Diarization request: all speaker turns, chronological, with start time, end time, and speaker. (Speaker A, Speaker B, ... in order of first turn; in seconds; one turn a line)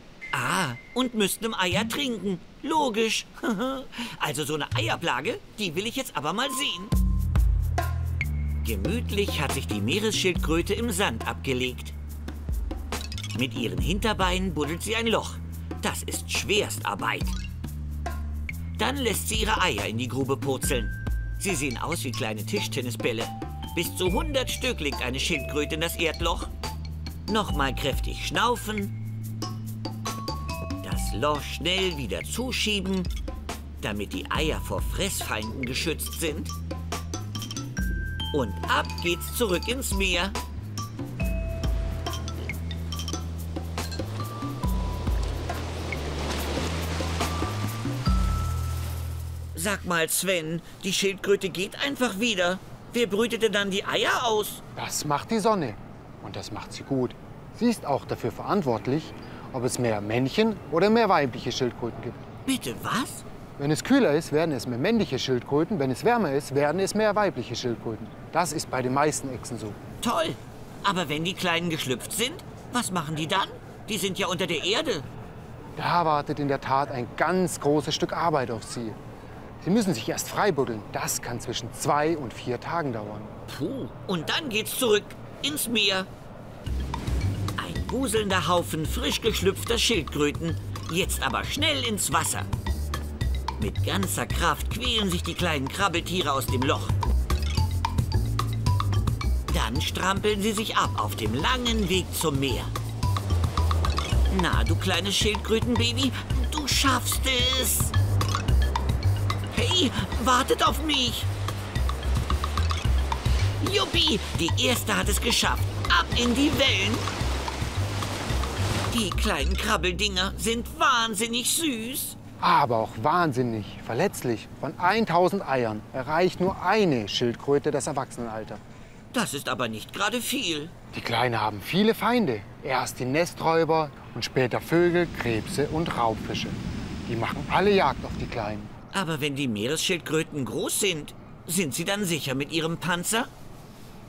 Speaker A: 0.3-7.0
Speaker A: 8.6-12.0
Speaker A: 13.3-17.4
Speaker A: 18.8-26.5
Speaker A: 27.3-29.0
Speaker A: 30.8-33.1
Speaker A: 33.8-36.5
Speaker A: 38.3-40.4
Speaker A: 49.5-54.6
Speaker B: 54.8-62.2
Speaker A: 62.5-63.2
Speaker B: 63.6-69.8
Speaker A: 70.0-75.1
Speaker B: 75.8-79.0
Speaker B: 79.6-83.3
Speaker A: 83.5-86.1
Speaker A: 87.6-92.5
Speaker A: 93.6-97.0
Speaker A: 99.5-102.7
Speaker A: 104.3-107.9
Speaker A: 109.5-111.3
Speaker A: 113.6-117.1
Speaker A: 118.9-122.2
Speaker B: 122.4-128.6
Speaker A: 129.1-130.7
Speaker B: 130.9-138.7
Speaker A: 138.9-143.3